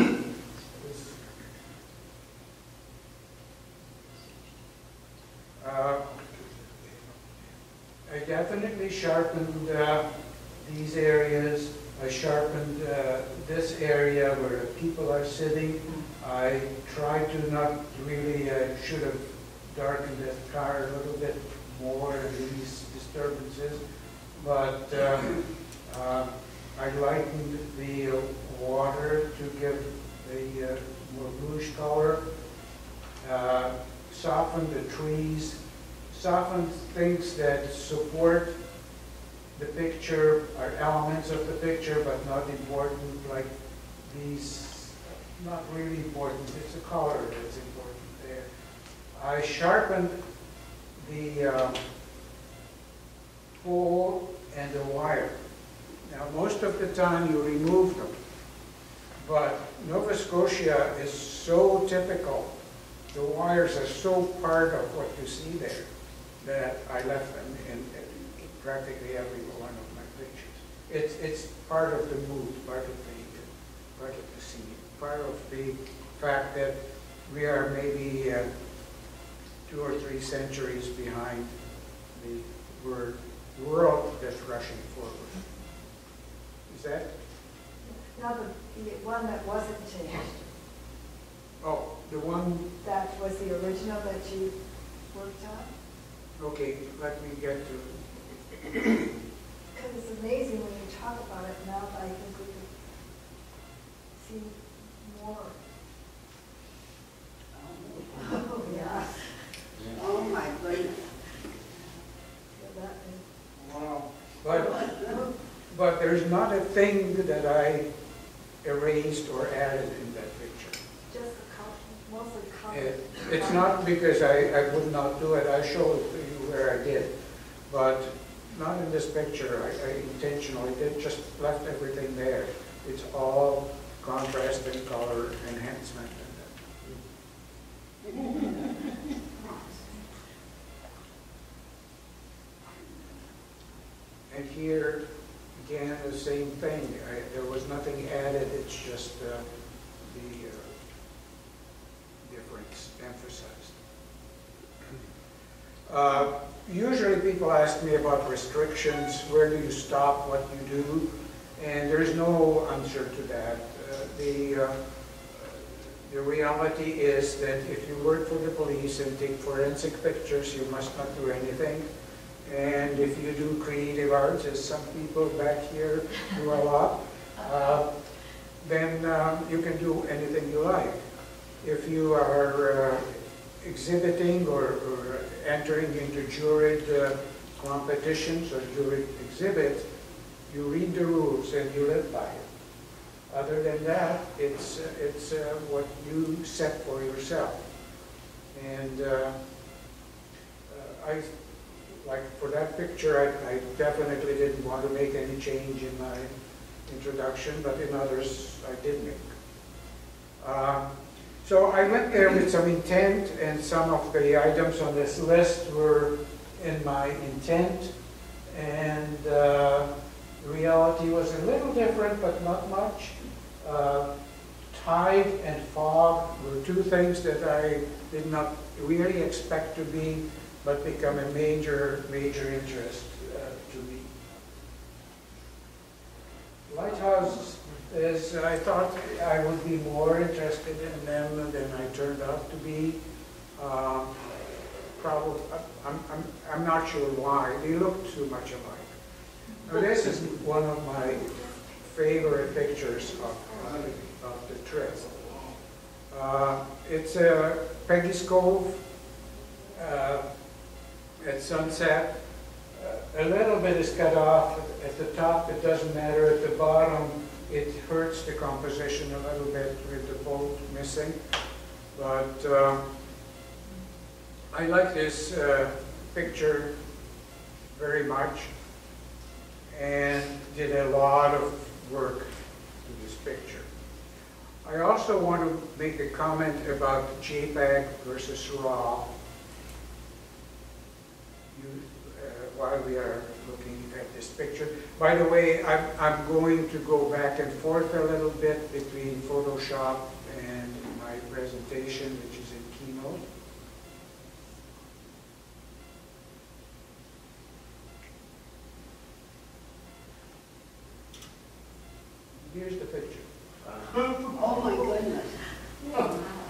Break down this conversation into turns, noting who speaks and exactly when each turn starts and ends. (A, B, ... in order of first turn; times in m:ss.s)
0:00.8-0:01.4 A
0:05.6-0:06.1 A
0:08.1-0:10.0 A
0:10.6-0:23.8 A
0:24.4-0:32.2 A
0:33.2-0:35.6 A
0:36.1-0:38.5 A
0:39.6-0:43.5 A
0:44.1-0:48.5 A
0:49.2-0:50.2 A
0:51.0-0:51.8 A
0:53.6-0:55.4 A
0:56.1-0:58.1 A
0:59.2-1:02.5 A
1:03.1-1:05.9 A
1:06.4-1:16.8 A
1:17.3-1:18.5 A
1:19.7-1:21.5 A
1:22.1-1:25.4 A
1:26.7-1:27.1 A
1:27.9-1:30.4 B
1:31.6-1:32.7 A
1:32.8-1:34.6 B
1:35.1-1:35.7 B
1:36.4-1:38.0 A
1:39.7-1:42.6 B
1:44.2-1:45.6 B
1:47.6-1:49.1 C
1:48.2-1:49.2 B
1:49.9-1:51.0 C
1:52.6-1:53.2 B
1:53.6-1:54.8 A
1:54.5-1:55.3 B
1:54.5-1:55.2 C
1:55.7-1:57.9 A
1:58.6-2:00.8 A
2:01.1-2:03.7 B
2:02.7-2:07.1 A
2:07.7-2:16.5 A
2:18.0-2:18.8 C
2:24.3-2:25.0 A
2:25.6-2:29.4 A
2:30.0-2:30.7 A
2:32.2-2:33.8 A
2:35.9-2:44.8 A
2:45.3-2:51.9 A
2:52.4-2:57.9 A
2:58.6-3:01.0 A
3:01.6-3:09.9 A
3:10.5-3:12.5 A
3:13.3-3:17.6 A
3:18.5-3:19.4 A
3:20.7-3:21.3 A
3:21.9-3:26.3 A
3:26.9-3:29.2 A
3:30.4-3:30.9 A
3:31.4-3:37.9 A
3:38.5-3:39.9 A
3:40.4-3:44.1 A
3:44.7-3:54.1 A
3:56.7-4:03.0 A
4:03.6-4:04.1 A
4:05.0-4:08.9 A
4:09.6-4:15.2 A
4:16.1-4:18.8 A
4:19.8-4:20.2 A
4:21.2-4:22.1 A
4:22.8-4:31.2 A
4:31.9-4:32.8 A
4:34.5-4:36.7 A
4:37.7-4:38.5 A
4:39.7-4:42.3 A
4:42.8-4:43.7 A
4:44.6-4:49.1 A
4:51.5-5:03.2 A
5:12.4-5:13.3 A
5:14.3-5:16.3 C